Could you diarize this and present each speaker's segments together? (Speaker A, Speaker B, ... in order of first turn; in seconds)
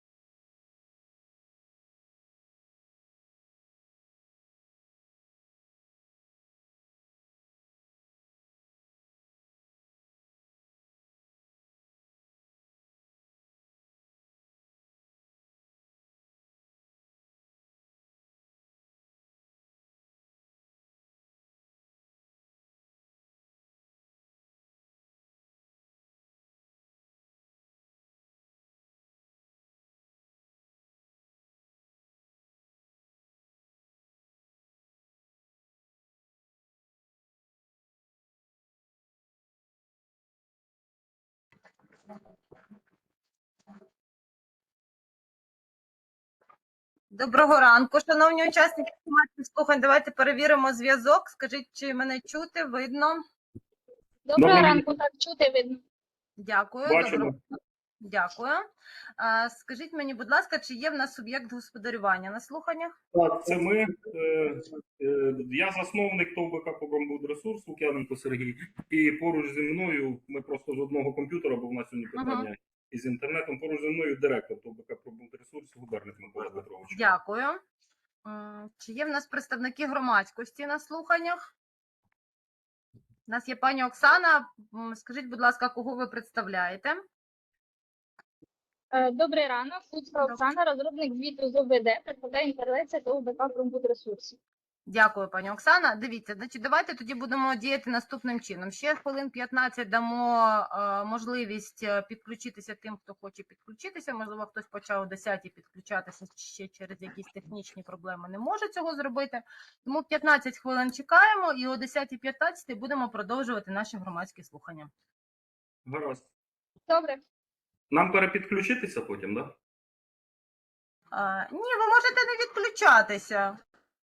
Speaker A: 47.1-53.2, 56.4-57.3, 58.0-58.6, 59.2-62.9, 72.2-72.5, 76.9-77.6, 78.2-81.4, 83.3-87.0, 94.9-114.9, 121.1-123.6
Speaker B: 54.3-55.8, 88.9-94.4, 116.9-117.2
Speaker C: 54.4-54.8, 56.9-57.3, 63.1-77.1, 115.8-116.3, 117.9-119.5